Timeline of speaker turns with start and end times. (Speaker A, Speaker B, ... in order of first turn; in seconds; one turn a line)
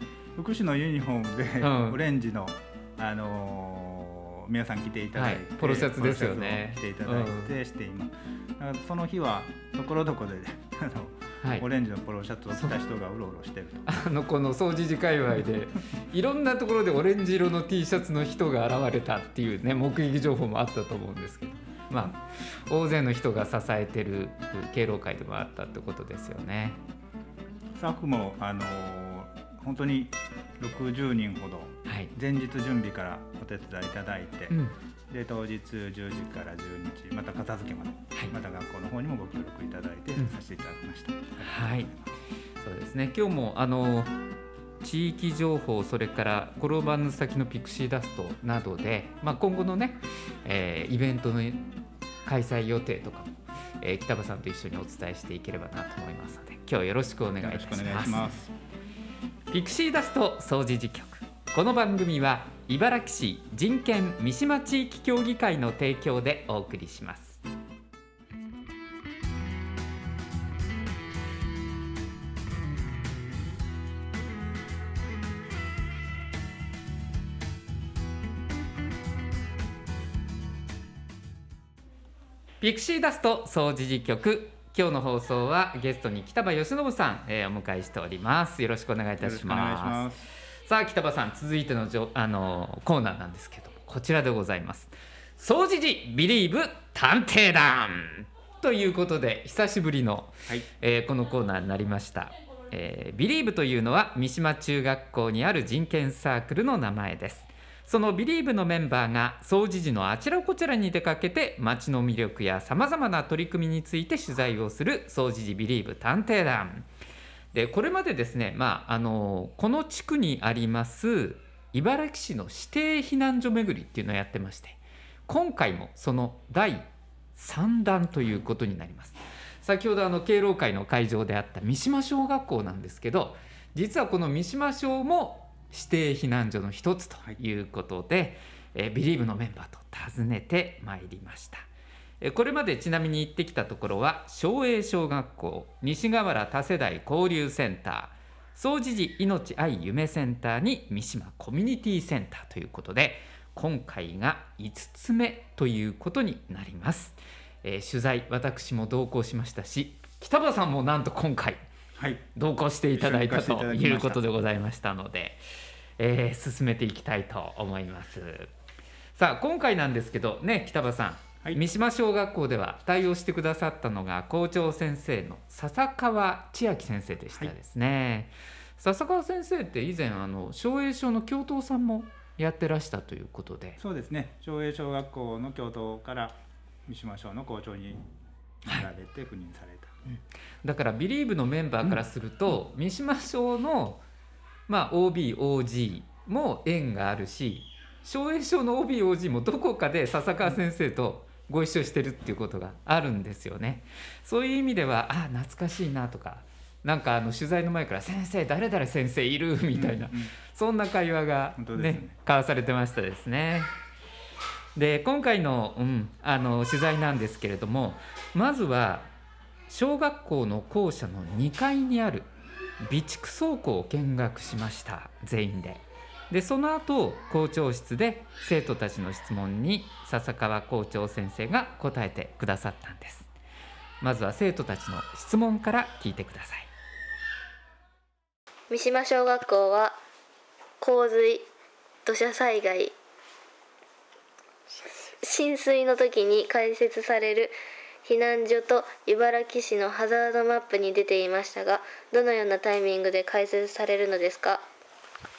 Speaker A: 0.3-13.9
Speaker B: 1.6-2.0
Speaker B: 5.1-7.5
Speaker B: 13.8-26.8
Speaker A: 27.8-34.6
Speaker B: 31.9-32.1
Speaker B: 34.5-34.8
Speaker A: 35.1-42.1
Speaker B: 41.4-41.9
Speaker B: 42.6-44.1
Speaker B: 44.8-51.7
Speaker B: 52.2-58.3
Speaker A: 57.4-58.5
Speaker B: 59.5-67.4
Speaker B: 82.6-90.1
Speaker A: 89.2-90.3
Speaker B: 90.6-116.9
Speaker B: 117.5-141.6
Speaker B: 142.2-161.6
Speaker A: 162.0-162.2
Speaker B: 162.3-165.4
Speaker A: 162.9-164.2
Speaker B: 166.0-168.5
Speaker B: 169.2-183.8
Speaker A: 183.8-186.3
Speaker A: 186.9-188.1
Speaker A: 188.6-189.9
Speaker B: 190.1-194.0
Speaker B: 194.7-213.7
Speaker A: 209.7-210.3
Speaker A: 211.6-212.1
Speaker B: 214.7-219.1
Speaker B: 219.7-222.3
Speaker B: 222.8-233.3
Speaker B: 234.0-236.7
Speaker C: 238.7-240.0
Speaker C: 240.8-241.5
Speaker C: 242.0-242.9
Speaker C: 245.2-254.6